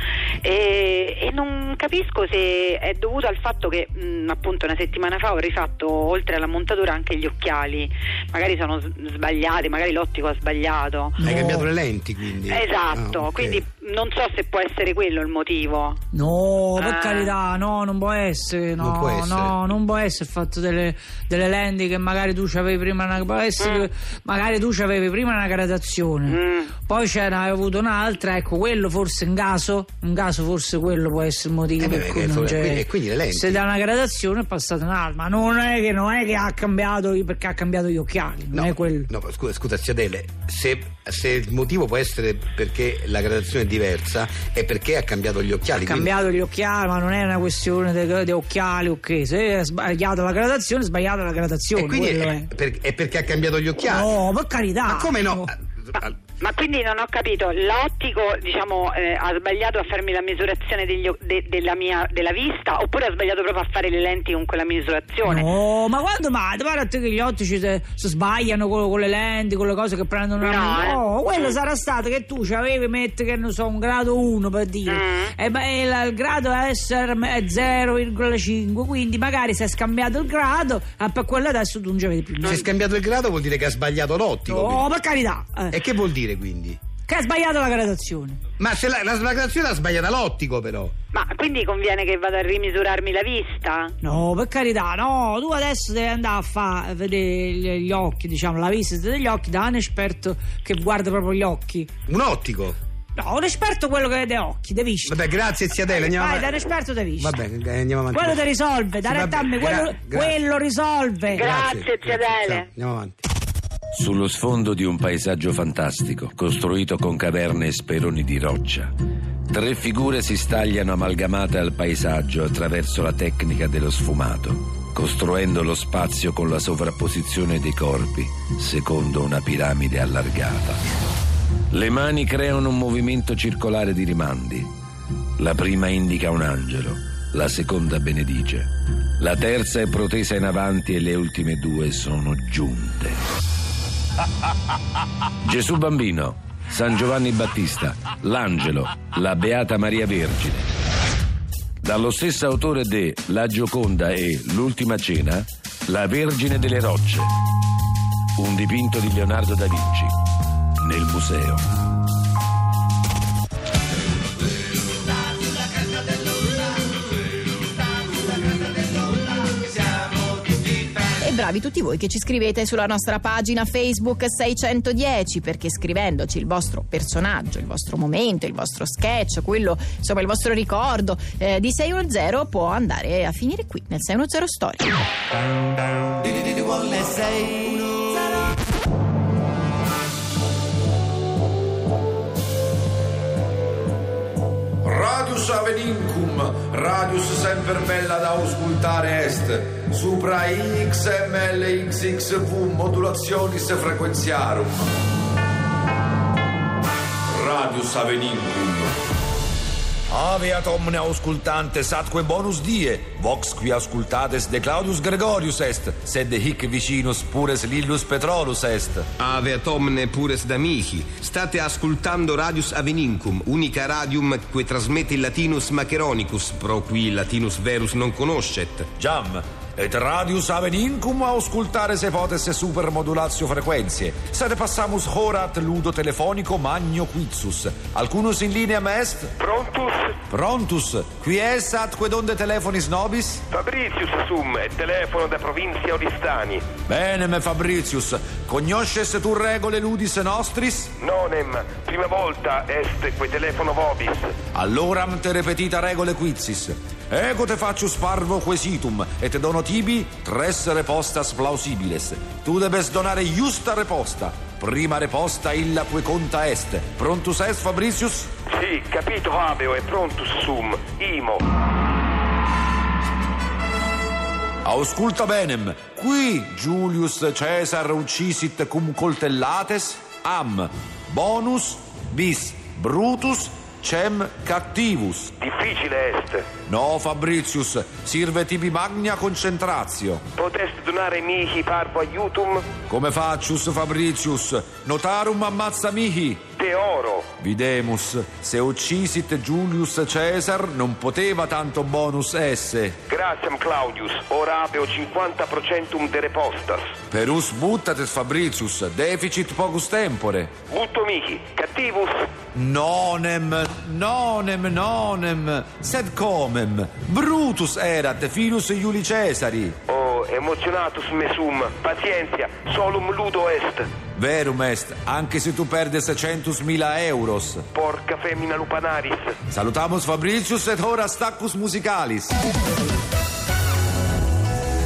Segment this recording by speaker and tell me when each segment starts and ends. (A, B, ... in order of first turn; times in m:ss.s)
0:00.4-0:11.2 A
0:11.2-0:11.7 B
0:11.2-0:13.6 C
0:12.5-0:16.0 A
0:16.1-0:39.1 B
0:16.8-0:17.3 A
0:18.8-0:19.6 C
0:26.3-0:26.7 A
0:31.8-0:33.6 C
0:38.5-0:46.1 C
0:45.8-0:52.5 B
0:51.7-0:54.2 C
0:53.8-0:55.5 B
0:54.8-0:56.1 C
0:56.0-1:05.5 A
1:05.2-1:22.6 B
1:10.4-1:11.5 A
1:14.9-1:15.3 A
1:22.4-1:24.9 C
1:24.5-1:25.7 B
1:25.7-1:26.8 C
1:27.1-1:28.4 B
1:28.6-1:30.9 C
1:31.1-1:33.9 A
1:34.0-1:41.9 B
1:42.1-1:42.8 C
1:43.2-1:45.2 B
1:45.0-1:46.6 C
1:45.9-1:47.4 B
1:47.2-1:48.5 C
1:48.1-1:51.5 B
1:49.0-1:50.4 C
1:51.3-1:52.7 A
1:51.4-1:53.2 C
1:53.9-1:58.9 D
1:59.5-2:10.8 D
2:11.7-2:14.7 D
2:15.4-2:23.2 D
2:25.4-2:30.6 D
2:31.8-2:37.3 D
2:38.4-2:40.1 D
2:40.8-2:41.6 D
2:51.2-3:04.9 E
3:14.8-3:24.9 F
3:27.3-3:28.9 F
3:30.1-3:39.1 F
3:39.2-3:48.8 G
3:49.0-3:59.3 F
3:59.4-4:00.1 H
4:00.3-4:03.4 F
4:03.5-4:06.6 H
4:06.9-4:10.9 F
4:11.0-4:14.3 H
4:14.5-4:28.3 F
4:28.5-4:31.5 H
4:34.6-4:45.3 F
4:45.4-4:46.5 H
4:46.7-4:50.2 F
4:50.4-4:52.7 H
4:52.9-4:56.4 F
4:56.6-4:57.3 H
4:57.4-5:03.0 F
5:03.1-5:06.9 H
5:07.1-5:10.5 F
5:10.7-5:12.3 H
5:12.5-5:19.8 F
5:19.9-5:23.9 H
5:24.2-5:27.6 F
5:27.7-5:29.3 H
5:29.5-5:32.3 F